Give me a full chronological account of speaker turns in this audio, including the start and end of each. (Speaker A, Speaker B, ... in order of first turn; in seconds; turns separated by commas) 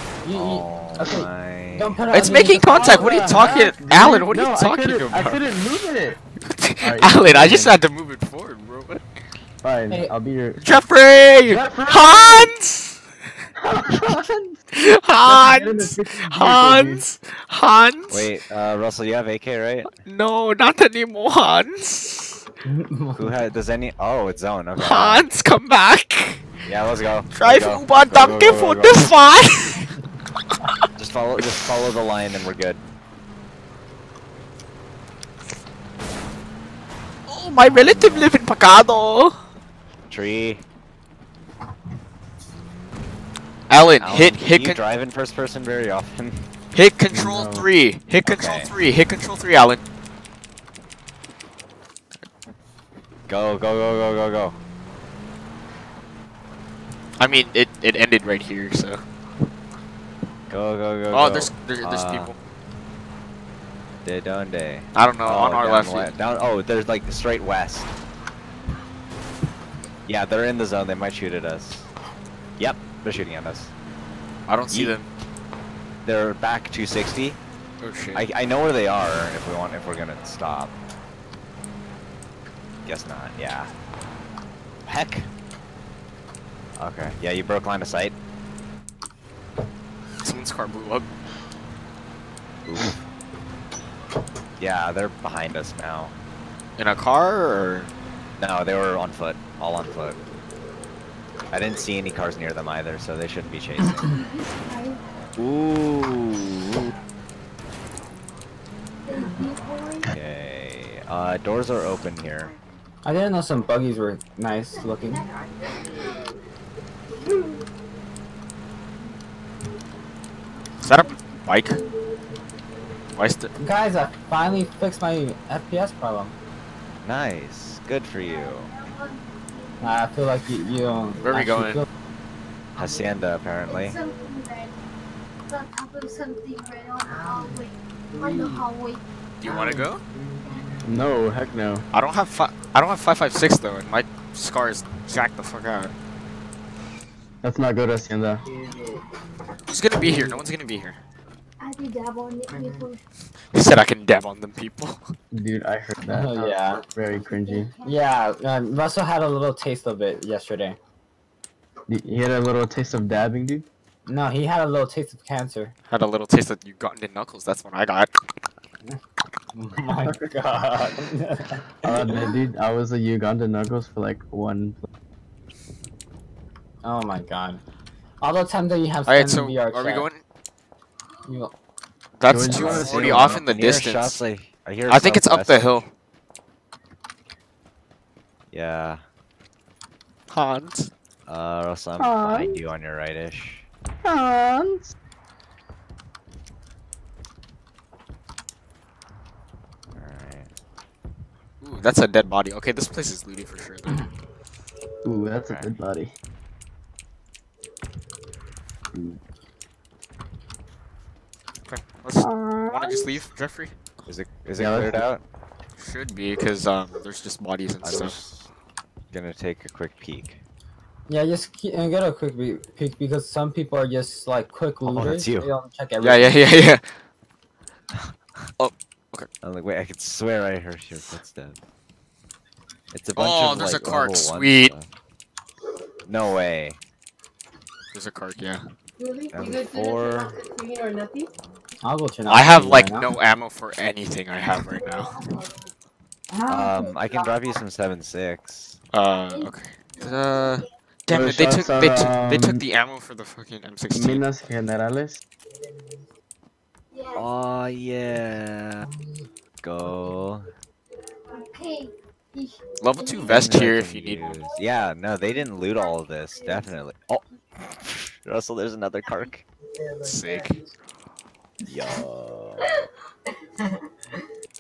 Speaker A: 0.2-3.8, Speaker B: 0.3-2.0, Speaker C: 2.1-5.5, Speaker D: 2.7-6.2, Speaker C: 6.4-9.0, Speaker D: 6.8-7.8, Speaker D: 9.6-10.6, Speaker A: 9.9-10.1, Speaker C: 10.6-13.0, Speaker A: 11.5-12.1, Speaker D: 11.5-12.4, Speaker D: 13.6-14.6, Speaker C: 14.7-18.3, Speaker D: 15.2-17.0, Speaker B: 18.1-19.9, Speaker C: 20.0-22.4, Speaker A: 22.6-23.4, Speaker B: 23.2-25.3, Speaker C: 24.8-26.6, Speaker B: 26.6-29.1, Speaker C: 27.4-29.9, Speaker B: 31.0-32.8, Speaker C: 37.3-39.4, Speaker B: 40.1-40.6, Speaker C: 43.7-44.8, Speaker B: 44.0-46.5, Speaker C: 46.7-49.8, Speaker D: 47.1-47.7, Speaker B: 48.2-48.7, Speaker B: 53.3-54.6, Speaker C: 57.2-59.0, Speaker B: 60.5-62.3, Speaker C: 61.1-62.4, Speaker B: 64.0-67.9, Speaker C: 65.0-66.1, Speaker B: 70.1-71.9, Speaker B: 72.6-73.7, Speaker C: 74.5-75.1, Speaker B: 76.0-77.4, Speaker C: 77.8-78.2, Speaker B: 78.1-80.7, Speaker B: 82.9-83.7, Speaker B: 84.9-85.3, Speaker B: 86.8-88.2, Speaker C: 90.2-91.1, Speaker B: 92.7-93.0, Speaker B: 94.6-96.2, Speaker C: 96.8-97.9, Speaker B: 98.4-100.2, Speaker B: 101.5-104.1, Speaker E: 103.9-105.0, Speaker B: 105.4-106.9, Speaker E: 109.0-110.2, Speaker F: 109.1-109.5, Speaker B: 110.1-112.5, Speaker F: 112.3-112.7, Speaker A: 113.0-115.2, Speaker E: 114.8-116.3, Speaker F: 115.0-116.4, Speaker F: 117.2-117.5, Speaker E: 117.2-117.5, Speaker C: 120.8-121.8, Speaker F: 122.2-122.6, Speaker C: 123.2-123.5, Speaker A: 123.6-126.3, Speaker B: 127.0-128.7, Speaker E: 128.2-130.2, Speaker A: 129.8-131.9, Speaker C: 131.2-131.8, Speaker B: 132.8-133.9, Speaker F: 132.8-133.9, Speaker E: 133.7-134.8, Speaker E: 135.5-139.0, Speaker F: 137.0-138.7, Speaker C: 139.4-140.0, Speaker F: 139.4-141.1, Speaker D: 140.8-141.8, Speaker C: 141.9-145.9, Speaker D: 147.4-148.4, Speaker F: 148.4-149.1, Speaker C: 149.7-151.0, Speaker D: 149.9-150.4, Speaker E: 151.6-153.0, Speaker F: 152.5-152.9, Speaker C: 153.5-155.1, Speaker D: 155.3-157.7, Speaker A: 156.1-156.8, Speaker E: 157.3-158.0, Speaker A: 157.8-160.8, Speaker D: 161.9-163.7, Speaker A: 164.1-165.7, Speaker C: 165.9-168.1, Speaker A: 169.5-172.2, Speaker D: 171.8-174.8, Speaker A: 176.8-177.6, Speaker A: 178.2-180.1, Speaker C: 179.1-180.2, Speaker A: 181.3-181.5, Speaker C: 182.2-184.2, Speaker D: 182.3-183.5, Speaker B: 182.5-185.8, Speaker C: 184.9-185.9, Speaker B: 188.5-189.0, Speaker C: 190.3-190.9, Speaker B: 191.3-193.7, Speaker D: 192.0-192.6, Speaker D: 194.0-194.9, Speaker B: 199.9-200.5, Speaker C: 201.6-204.1, Speaker D: 205.1-206.1, Speaker B: 205.5-205.7, Speaker C: 211.7-213.8, Speaker D: 212.2-213.2, Speaker B: 214.1-215.2, Speaker D: 214.6-215.0, Speaker C: 215.8-218.2, Speaker B: 217.8-218.5, Speaker B: 219.1-220.4, Speaker A: 221.1-226.4, Speaker B: 224.8-225.5, Speaker C: 226.0-226.8, Speaker B: 227.9-228.5, Speaker C: 228.6-229.3, Speaker B: 229.4-231.6, Speaker B: 232.9-234.9, Speaker C: 233.2-234.7, Speaker B: 236.1-236.8, Speaker C: 237.9-238.7, Speaker F: 239.0-241.3, Speaker B: 239.3-240.4, Speaker A: 241.8-243.1, Speaker C: 242.3-245.1, Speaker E: 244.6-245.7, Speaker F: 246.3-247.6, Speaker B: 246.5-248.8, Speaker C: 248.9-254.2, Speaker E: 249.3-250.7, Speaker D: 251.1-252.6, Speaker D: 253.9-255.2, Speaker F: 255.5-256.1, Speaker E: 256.9-257.3, Speaker B: 257.1-258.9, Speaker F: 258.8-259.3, Speaker B: 259.6-260.5, Speaker F: 259.8-260.2, Speaker E: 261.3-264.6, Speaker C: 262.8-264.3, Speaker B: 263.3-269.4, Speaker E: 265.2-266.7, Speaker F: 269.6-270.8, Speaker C: 270.0-270.6, Speaker F: 271.7-272.0, Speaker B: 271.7-272.7, Speaker F: 272.6-272.9, Speaker F: 273.6-274.2